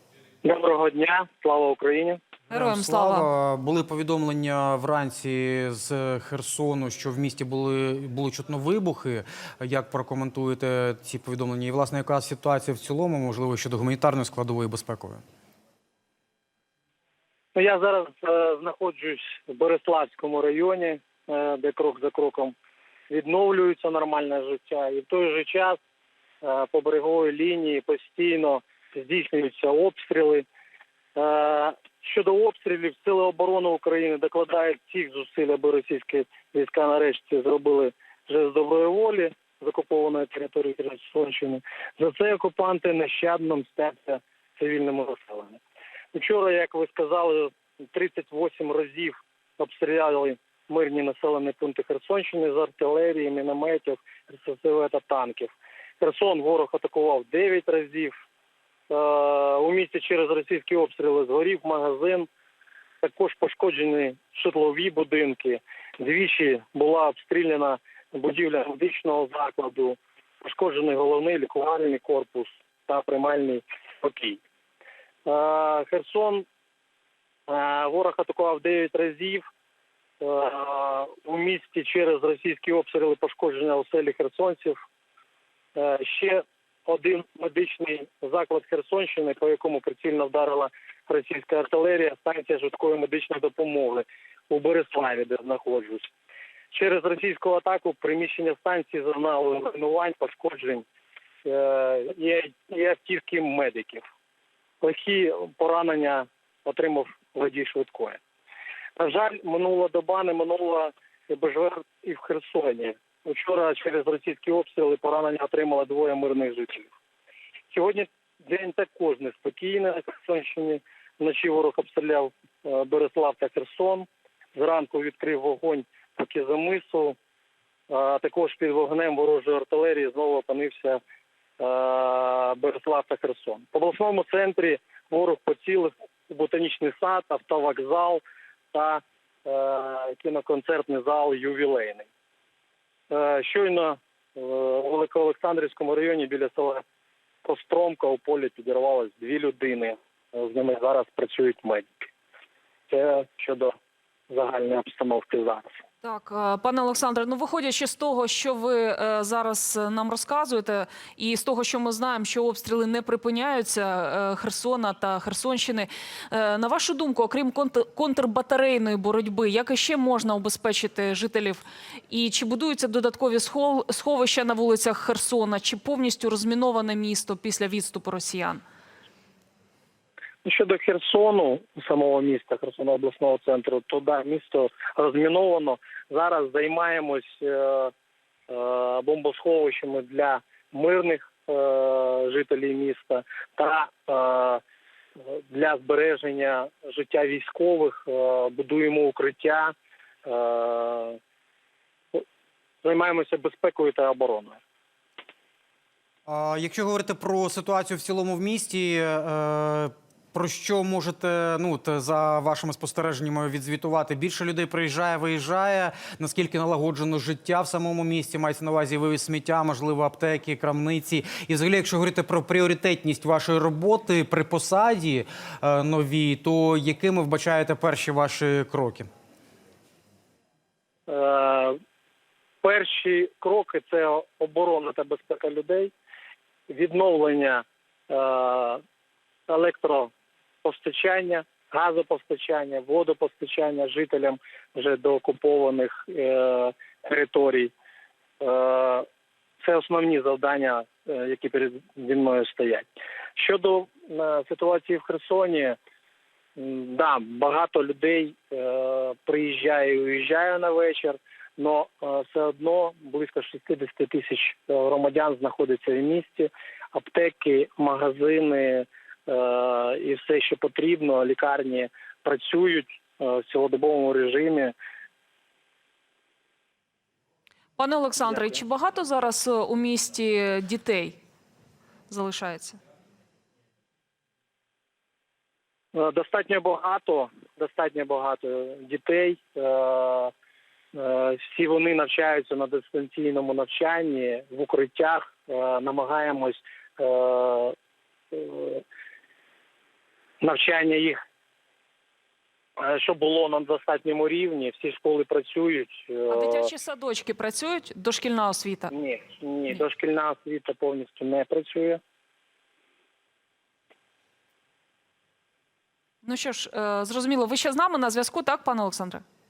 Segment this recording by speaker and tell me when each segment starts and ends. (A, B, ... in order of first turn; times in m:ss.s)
0:00.4-0:02.2 A
0:02.5-0:15.2 B
0:02.5-0:03.3 C
0:17.5-0:22.5 A
0:23.1-0:25.8 A
0:26.4-0:30.4 A
0:31.1-0:45.6 A
0:46.1-0:58.1 A
0:58.9-1:02.3 A
1:03.0-1:14.4 A
1:15.2-1:16.4 A
1:17.5-1:19.4 A
1:20.2-1:24.8 A
1:25.7-1:36.1 A
1:36.7-1:40.8 A
1:41.4-1:44.0 A
1:44.8-1:48.2 A
1:49.0-1:56.9 A
1:57.7-2:07.2 A
2:07.9-2:11.0 A
2:11.6-2:18.2 A
2:18.7-2:22.1 A
2:23.1-2:26.8 A
2:27.4-2:32.1 A
2:32.9-2:33.7 A
2:34.3-2:35.6 A
2:36.0-2:58.6 C
3:00.4-3:07.9 A
3:08.5-3:14.6 A
3:15.2-3:19.7 A
3:20.2-3:21.2 A
3:22.8-3:24.6 A
3:26.3-3:49.1 B
3:51.1-3:51.8 A
3:52.6-3:55.9 A
3:56.7-3:58.8 A
3:59.5-4:00.1 A
4:00.6-4:07.7 A
4:08.4-4:09.1 A
4:09.6-4:15.8 A
4:16.6-4:34.7 A
4:37.8-4:41.2 C
4:38.2-4:38.6 A
4:42.1-4:42.8 C
4:45.9-4:50.3 A
4:50.9-4:57.7 A
4:58.3-4:58.8 A
5:00.4-5:01.2 A
5:02.8-5:06.7 A
5:06.3-5:08.9 C
5:08.9-5:12.0 A
5:16.2-5:19.2 C